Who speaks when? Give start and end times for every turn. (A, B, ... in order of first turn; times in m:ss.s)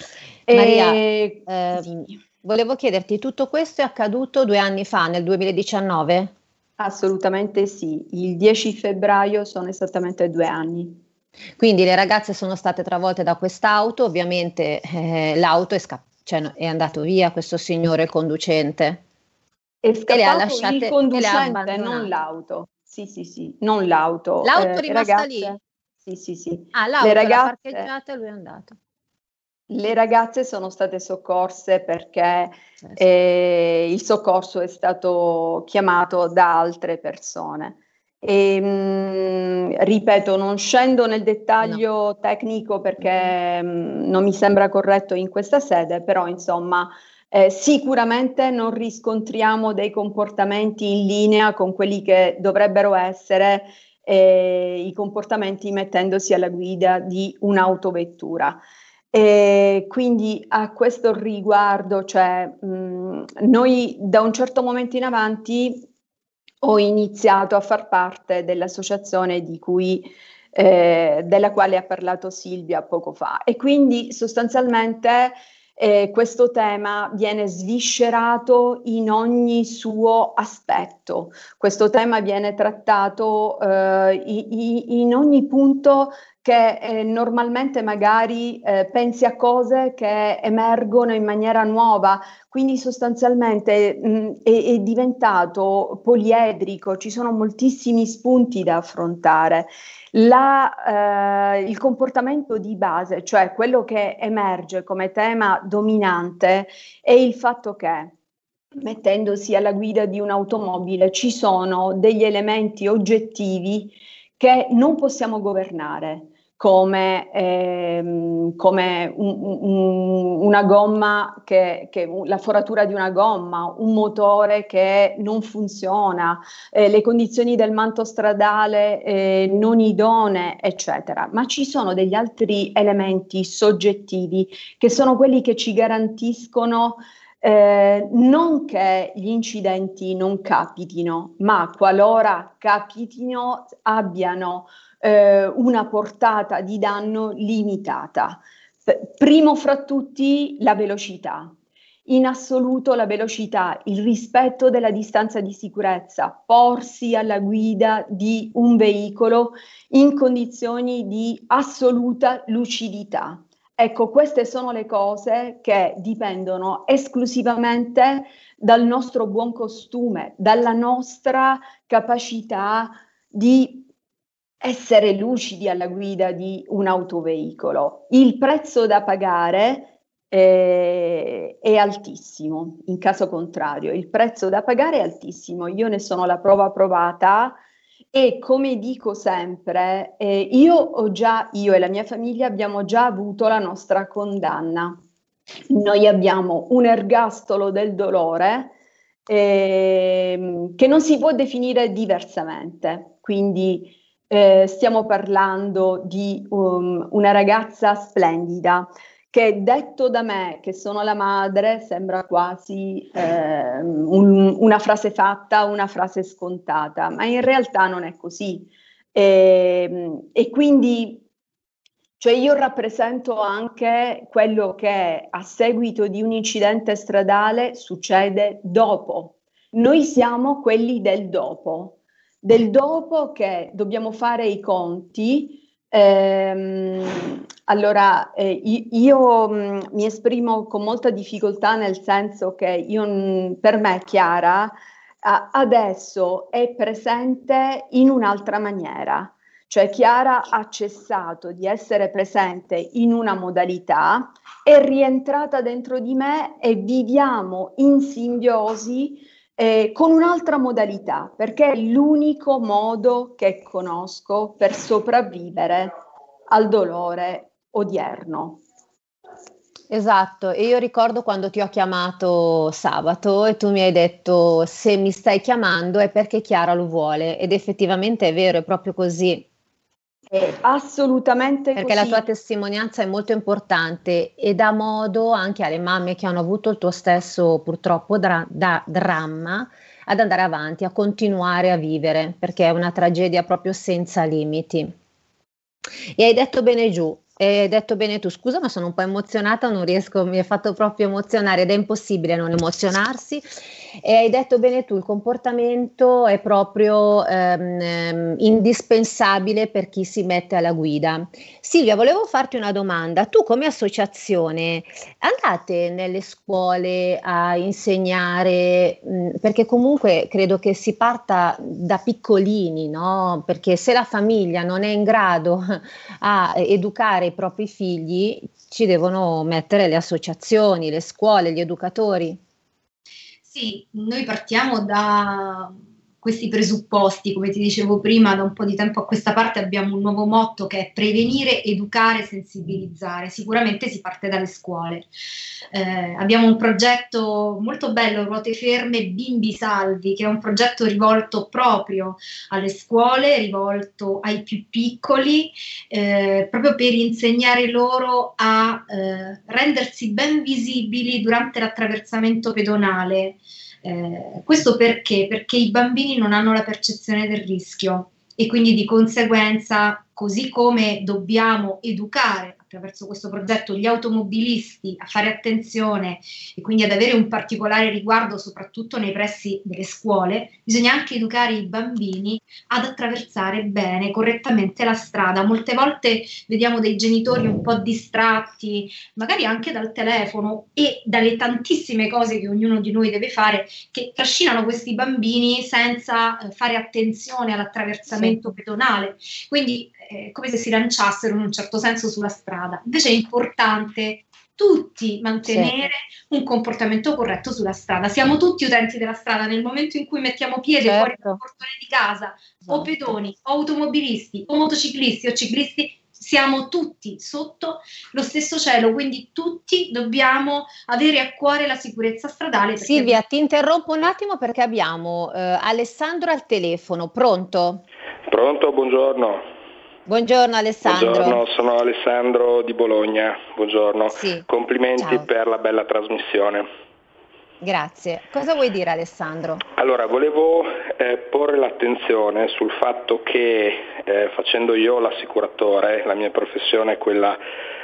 0:00.5-0:02.1 A
0:00.5-0:06.3 B
0:06.8-0:11.0 A
0:11.6-0:19.0 B
0:19.8-0:27.9 A
0:20.1-0:22.1 B
0:24.4-0:25.6 B
0:26.7-0:28.8 B
0:29.7-0:58.6 A
0:59.1-1:05.9 A
1:06.6-1:48.1 A
1:48.8-2:31.5 A
2:32.1-2:53.9 A
2:54.6-3:07.6 A
3:08.1-3:15.0 A
3:15.7-3:18.7 A
3:19.3-3:41.2 A
3:42.2-4:25.9 A
4:26.5-4:28.6 A
4:29.9-4:39.5 B
4:40.3-4:42.2 A
4:41.8-4:54.9 B
4:56.2-5:03.5 B
5:04.0-5:32.4 B
5:33.4-5:45.1 C
5:45.7-7:03.2 C
6:38.1-6:38.4 B
6:45.5-6:45.9 B
6:50.8-6:51.4 B
6:52.6-6:53.1 B
7:02.8-7:07.8 B
7:08.3-7:09.4 D
7:10.1-7:11.4 B
7:10.8-7:16.7 D
7:14.1-7:14.4 B
7:15.0-7:15.3 B
7:17.6-7:19.6 B
7:19.8-7:27.4 D